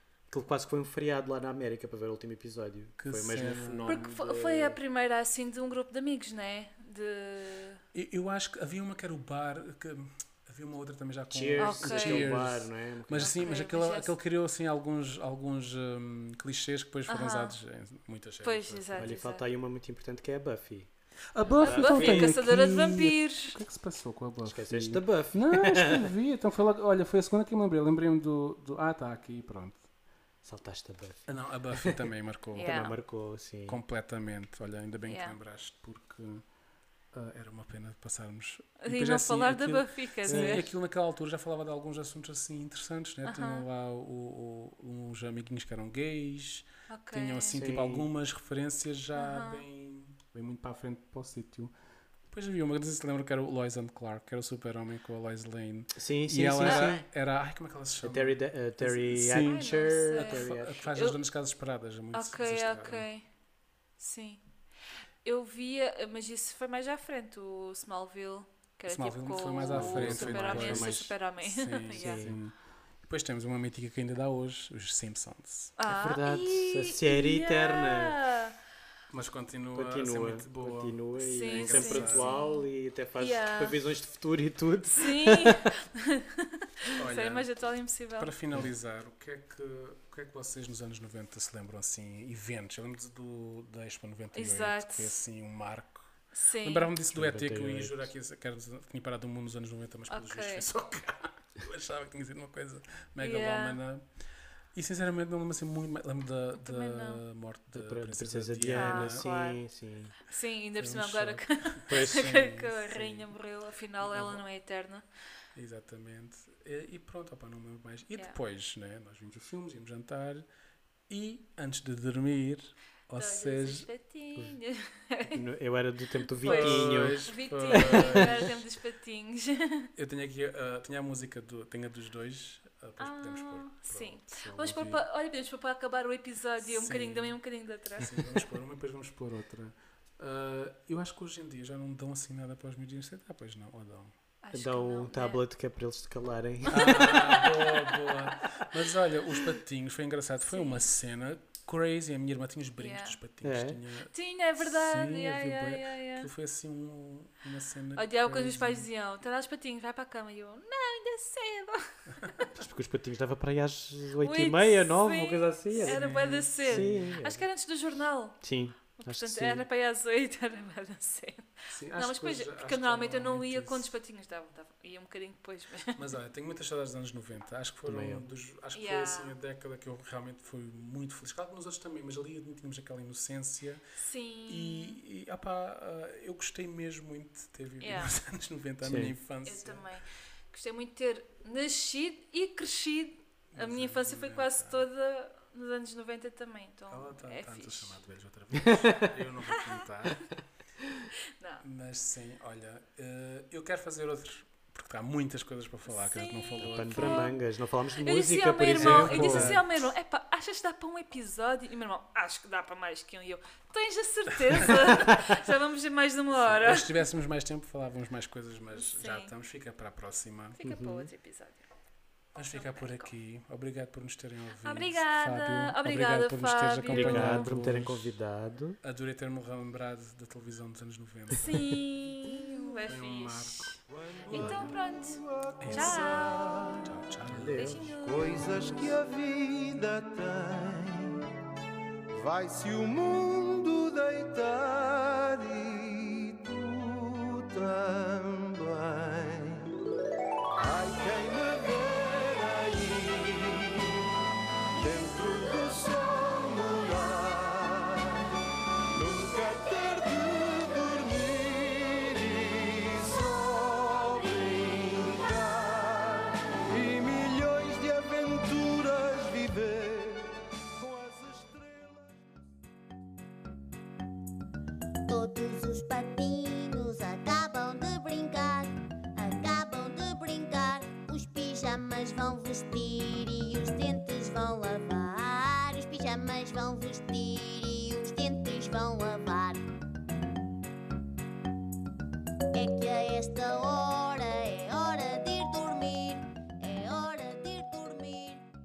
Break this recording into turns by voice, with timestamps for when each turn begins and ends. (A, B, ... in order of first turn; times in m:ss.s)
0:00.3-0:04.8 A
0:03.0-0:04.1 B
0:03.9-0:07.8 C
0:07.9-0:19.2 B
0:11.3-0:13.5 A
0:11.6-0:12.4 C
0:13.2-0:14.1 C
0:17.1-0:17.6 C
0:18.4-0:19.4 C
0:19.0-0:20.9 A
0:21.3-0:29.8 B
0:21.5-0:22.4 A
0:21.6-0:23.6 C
0:24.4-0:26.1 A
0:30.4-0:32.0 A
0:31.3-0:32.9 B
0:32.5-0:32.9 C
0:32.6-0:33.8 A
0:33.7-0:36.4 B
0:35.0-0:35.4 C
0:37.1-0:51.7 B
0:38.8-0:40.7 C
0:40.3-0:40.7 A
0:43.2-0:43.6 C
0:46.9-0:47.6 C
0:47.5-0:48.1 A
0:49.1-0:49.6 C
0:52.3-1:03.1 B
0:55.9-0:57.0 A
0:58.0-1:00.9 A
0:59.4-1:01.2 C
1:02.1-1:03.2 C
1:04.0-1:04.4 C
1:05.2-1:12.2 C
1:08.9-1:15.7 B
1:09.6-1:11.1 A
1:11.9-1:12.4 A
1:15.8-1:18.6 C
1:15.9-1:18.2 A
1:19.1-1:22.3 B
1:19.7-1:25.7 A
1:21.2-1:22.6 C
1:23.2-1:23.8 C
1:24.9-1:28.3 C
1:26.9-1:27.5 B
1:28.2-1:44.0 B
1:34.3-1:35.2 C
1:36.3-1:36.9 C
1:37.1-1:38.1 A
1:40.1-1:40.6 C
1:43.2-1:43.8 C
1:44.7-1:49.2 B
1:46.6-1:47.2 C
1:47.7-1:50.1 A
1:48.7-1:49.6 C
1:50.3-1:55.0 C
1:50.8-1:53.3 B
1:51.9-1:52.3 A
1:54.0-1:54.4 B
1:55.5-2:00.4 B
2:01.1-2:03.9 B
2:03.2-2:05.4 C
2:05.3-2:08.4 A
2:06.4-2:08.6 B
2:06.4-2:09.9 C
2:10.0-2:15.0 B
2:13.0-2:18.1 C
2:16.6-2:17.4 B
2:18.0-2:24.1 B
2:24.4-2:25.4 C
2:24.5-2:27.6 A
2:26.7-2:38.9 B
2:30.5-2:30.9 C
2:32.8-2:33.2 C
2:33.4-2:33.8 A
2:34.1-2:36.3 C
2:38.0-2:41.9 C
2:42.2-2:42.4 B
2:42.5-2:46.0 A
2:44.2-2:48.4 C
2:45.7-2:47.2 B
2:46.6-2:47.4 A
2:48.4-2:49.6 A
2:49.0-2:56.0 C
2:51.7-2:53.9 B
2:56.0-3:03.8 B
2:57.8-2:58.2 A
2:58.7-2:59.3 C
3:04.0-3:05.0 C
3:04.5-3:09.8 B
3:07.8-3:08.1 C
3:08.8-3:09.1 A
3:09.4-3:18.0 C
3:13.5-3:14.8 B
3:16.9-3:20.4 B
3:18.6-3:19.1 A
3:21.6-3:27.2 B
3:25.9-3:27.4 C
3:26.6-3:29.6 A
3:28.0-3:36.9 C
3:28.7-3:29.7 B
3:34.5-3:34.8 B
3:34.8-3:35.2 A
3:36.3-3:40.6 B
3:38.7-3:39.3 C
3:40.6-3:41.6 C
3:40.6-3:41.1 A
3:42.3-3:48.1 B
3:42.5-3:43.1 C
3:44.6-3:47.5 C
3:46.9-3:48.8 A
3:48.8-3:51.8 B
3:51.3-3:56.6 C
3:52.9-3:53.8 B
3:53.9-3:56.9 D
3:54.4-3:54.7 B
3:55.6-3:57.7 B
3:57.3-3:58.0 A
3:57.5-3:58.4 C
3:58.0-4:01.3 D
4:02.1-4:09.7 D
4:10.6-4:14.0 D
4:14.8-4:18.3 D
4:18.9-4:32.4 D
4:35.1-4:49.6 E
4:52.5-4:58.4 E